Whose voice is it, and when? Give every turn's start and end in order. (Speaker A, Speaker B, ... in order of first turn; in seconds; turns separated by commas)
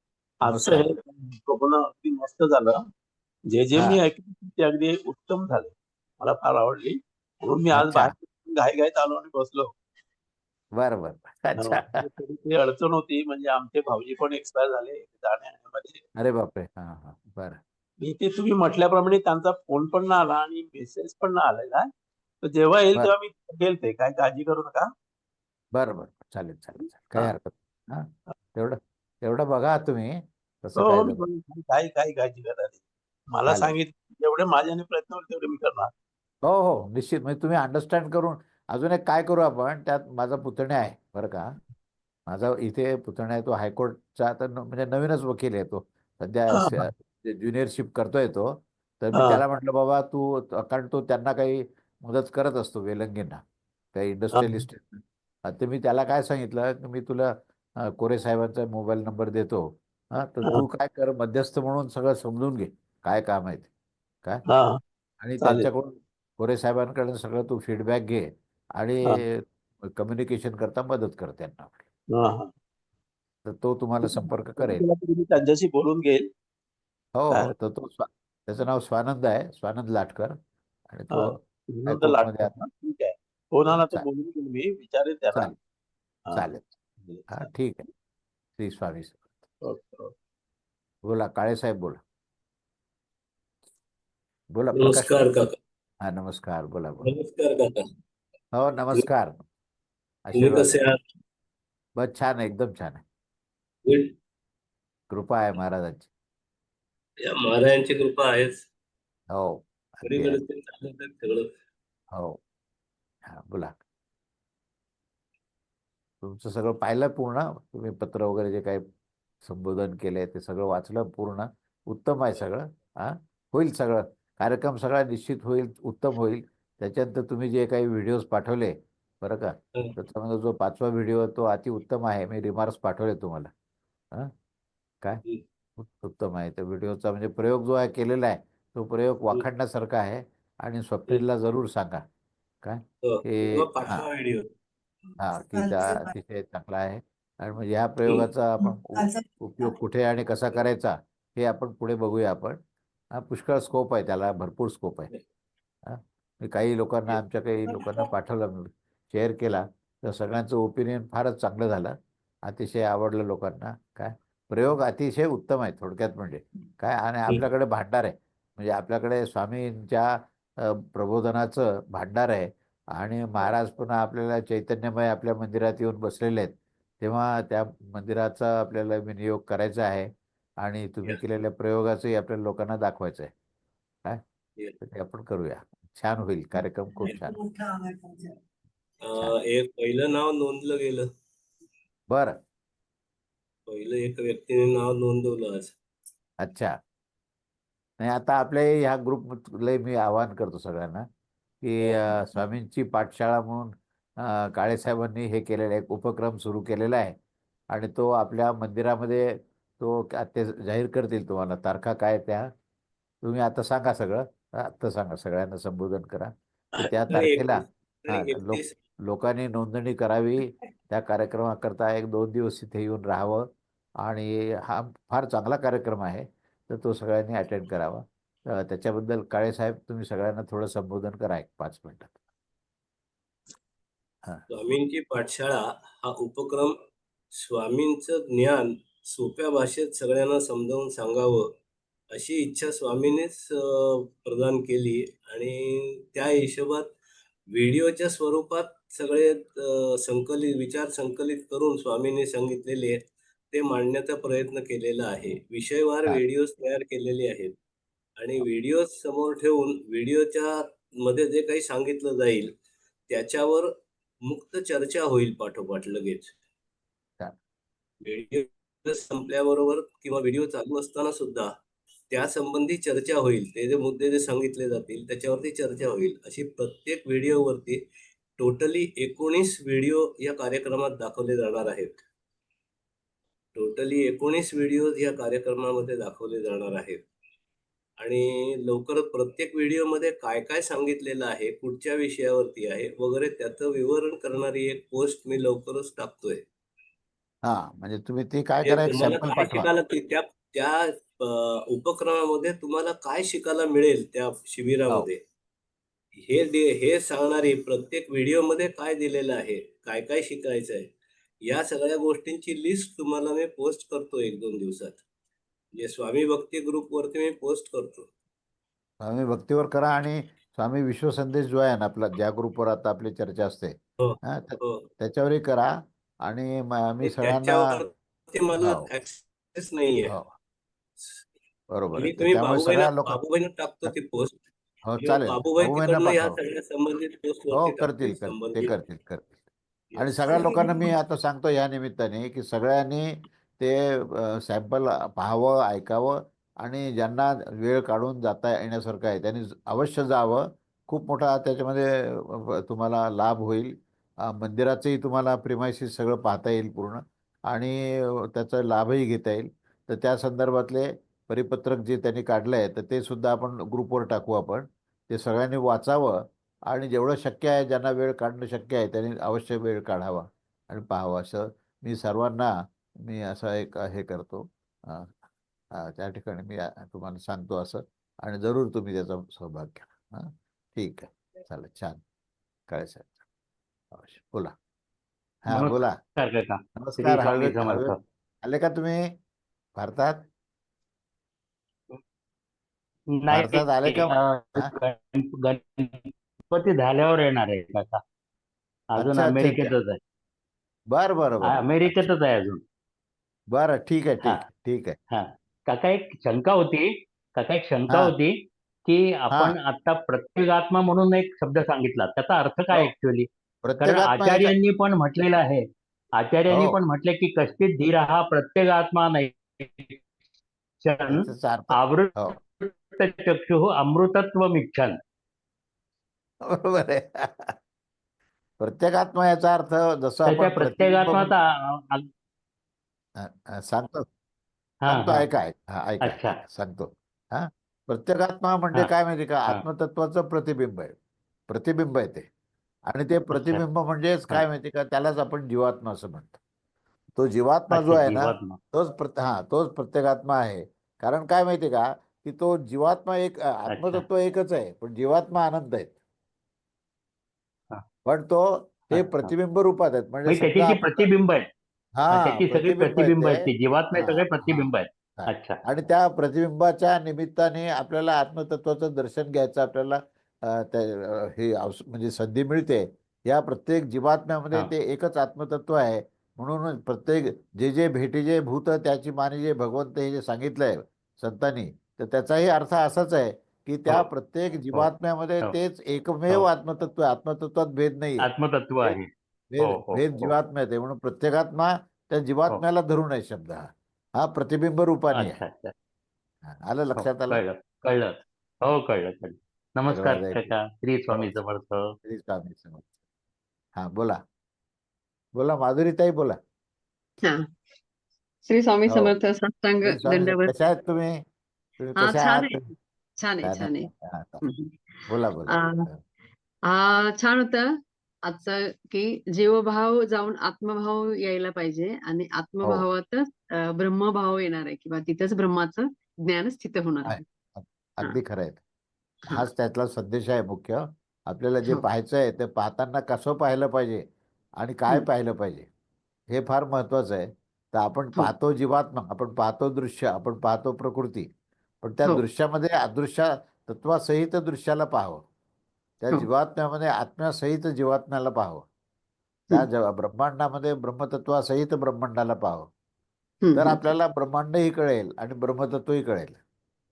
Speaker A: 0.4-2.8, Speaker B: 0.5-0.9, Speaker A: 3.5-9.7, Speaker B: 3.7-4.0, Speaker B: 7.7-8.1, Speaker B: 10.8-12.1, Speaker A: 11.6-16.0, Speaker B: 16.2-17.6, Speaker A: 18.0-21.9, Speaker A: 22.4-24.9, Speaker B: 25.7-31.2, Speaker A: 27.1-27.3, Speaker A: 30.8-32.8, Speaker A: 33.3-35.9, Speaker B: 33.5-33.7, Speaker B: 36.4-41.5, Speaker B: 42.3-53.4, Speaker A: 46.5-46.9, Speaker A: 49.1-49.4, Speaker B: 53.9-63.7, Speaker A: 54.3-54.6, Speaker A: 64.5-64.8, Speaker B: 65.2-71.8, Speaker A: 65.4-65.7, Speaker A: 72.1-72.5, Speaker B: 73.5-74.8, Speaker A: 74.1-76.2, Speaker B: 77.2-80.4, Speaker B: 80.9-82.6, Speaker A: 81.1-85.5, Speaker B: 83.7-84.1, Speaker B: 86.3-86.7, Speaker A: 87.0-87.4, Speaker B: 87.3-87.9, Speaker B: 88.6-89.3, Speaker A: 89.7-90.1, Speaker B: 91.0-92.0, Speaker B: 94.5-95.3, Speaker C: 94.8-95.6, Speaker B: 96.0-97.1, Speaker C: 97.0-97.9, Speaker B: 98.5-99.4, Speaker B: 100.2-100.8, Speaker C: 100.3-101.0, Speaker B: 102.0-103.0, Speaker C: 103.9-104.1, Speaker B: 105.1-106.1, Speaker C: 107.2-108.6, Speaker B: 109.3-110.4, Speaker C: 110.1-111.5, Speaker B: 112.1-112.4, Speaker B: 113.2-113.8, Speaker B: 116.2-118.8, Speaker B: 119.4-133.5, Speaker B: 135.8-142.0, Speaker B: 142.6-144.1, Speaker C: 143.0-144.5, Speaker B: 145.2-152.6, Speaker B: 153.1-155.1, Speaker B: 155.8-170.1, Speaker B: 170.6-180.1, Speaker B: 180.6-183.3, Speaker B: 184.8-187.4, Speaker C: 187.1-187.3, Speaker C: 189.0-191.1, Speaker B: 192.1-192.4, Speaker C: 193.7-195.8, Speaker B: 196.4-196.7, Speaker B: 198.0-201.1, Speaker B: 201.6-207.2, Speaker B: 207.7-212.5, Speaker B: 213.2-223.5, Speaker C: 216.8-218.8, Speaker B: 224.0-232.2, Speaker C: 234.5-236.8, Speaker C: 237.3-241.5, Speaker C: 242.1-246.9, Speaker C: 247.5-253.0, Speaker C: 253.5-257.6, Speaker C: 258.2-262.6, Speaker C: 263.1-263.7, Speaker C: 264.2-266.3, Speaker C: 268.0-271.6, Speaker C: 272.1-277.8, Speaker C: 278.4-282.0, Speaker C: 283.6-287.0, Speaker C: 288.0-296.4, Speaker B: 297.4-299.7, Speaker C: 298.6-305.2, Speaker C: 306.1-310.9, Speaker C: 311.4-315.0, Speaker C: 315.8-318.1, Speaker B: 319.0-325.7, Speaker C: 324.0-324.8, Speaker B: 326.2-327.8, Speaker C: 327.0-330.1, Speaker B: 328.5-328.9, Speaker B: 331.7-333.2, Speaker C: 331.9-334.4, Speaker B: 334.9-336.4, Speaker C: 335.0-338.7, Speaker B: 337.5-339.4, Speaker C: 339.9-340.5, Speaker B: 340.0-372.5, Speaker D: 340.5-340.9, Speaker B: 373.0-375.1, Speaker B: 375.8-382.0, Speaker B: 382.7-383.1, Speaker B: 383.9-384.5, Speaker B: 385.4-386.0, Speaker E: 385.5-388.0, Speaker B: 386.8-389.1, Speaker B: 389.8-390.2, Speaker E: 393.1-398.0, Speaker B: 393.3-394.7, Speaker E: 399.0-400.0, Speaker B: 399.0-399.8, Speaker B: 400.9-402.1, Speaker E: 401.4-402.6, Speaker B: 403.5-405.0, Speaker E: 405.1-413.3, Speaker B: 413.6-414.6, Speaker E: 413.8-415.6, Speaker E: 416.2-420.0, Speaker B: 416.5-416.8, Speaker E: 420.8-425.0, Speaker B: 421.1-422.4, Speaker B: 426.4-427.6, Speaker B: 428.6-431.3, Speaker E: 430.2-432.1, Speaker B: 433.2-434.1, Speaker E: 434.9-435.2, Speaker B: 434.9-440.9, Speaker E: 436.1-436.4, Speaker B: 441.5-442.3, Speaker B: 442.9-446.4, Speaker E: 443.3-443.6, Speaker B: 447.1-455.9, Speaker E: 447.7-448.6, Speaker E: 453.7-454.0, Speaker B: 458.1-461.1, Speaker E: 458.9-459.3, Speaker E: 460.3-461.5, Speaker B: 462.0-488.3, Speaker E: 462.1-465.6, Speaker E: 488.2-490.3, Speaker B: 489.5-495.4, Speaker E: 495.1-495.7, Speaker B: 496.4-497.4, Speaker E: 497.0-501.9, Speaker B: 499.9-500.5, Speaker B: 501.1-501.3, Speaker B: 502.1-502.9, Speaker B: 503.8-504.2, Speaker B: 505.4-506.4, Speaker D: 508.5-510.5, Speaker B: 508.9-509.1, Speaker B: 509.8-511.2, Speaker B: 511.8-512.7, Speaker D: 512.0-512.6, Speaker D: 513.2-513.9, Speaker B: 513.4-514.4, Speaker D: 514.4-515.9, Speaker B: 515.1-516.0, Speaker D: 516.7-517.8, Speaker D: 518.2-527.2, Speaker B: 527.0-528.6, Speaker B: 529.3-534.0, Speaker B: 534.6-535.7, Speaker B: 536.3-541.3, Speaker B: 541.8-545.2, Speaker B: 546.0-548.6, Speaker B: 549.5-552.7, Speaker D: 553.4-553.9, Speaker B: 553.5-556.4